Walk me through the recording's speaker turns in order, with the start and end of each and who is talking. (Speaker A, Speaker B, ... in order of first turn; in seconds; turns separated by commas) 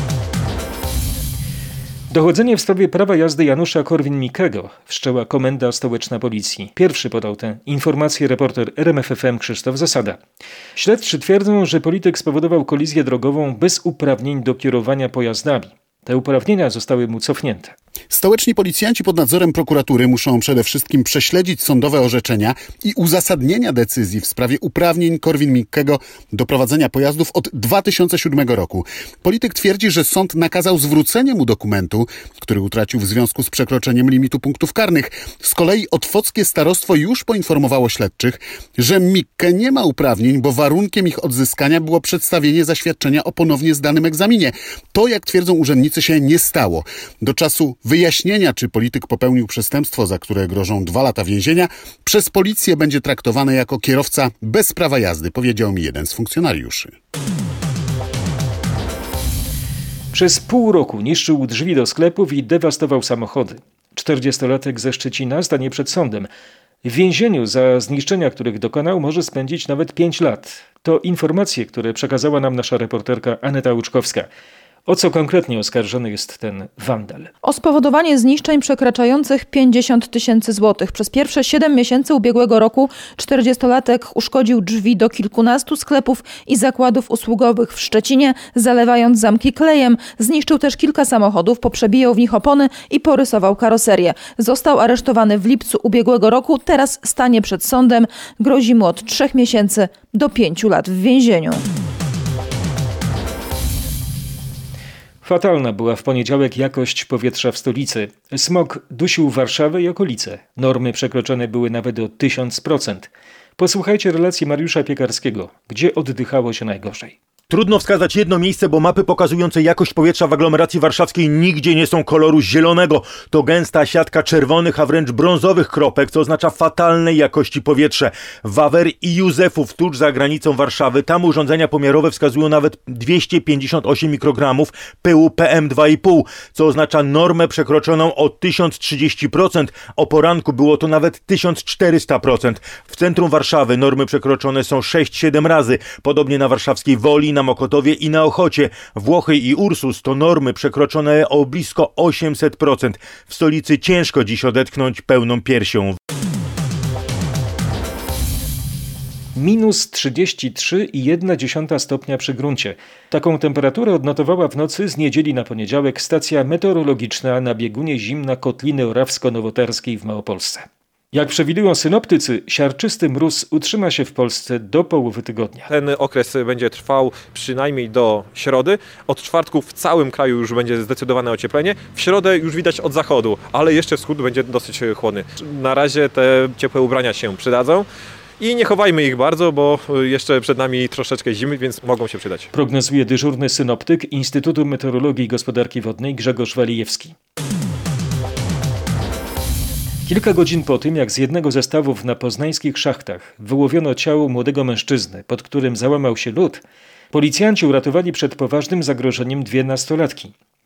Speaker A: 2.1-10.2, Speaker A: 10.8-17.7, Speaker B: 18.1-56.9, Speaker A: 60.1-66.3, Speaker A: 66.8-74.3, Speaker A: 74.8-77.3, Speaker C: 77.4-101.6, Speaker A: 105.2-117.2, Speaker D: 117.5-155.9, Speaker A: 159.3-175.7, Speaker E: 175.7-187.9, Speaker E: 188.4-192.5, Speaker A: 192.5-197.1, Speaker A: 200.1-210.3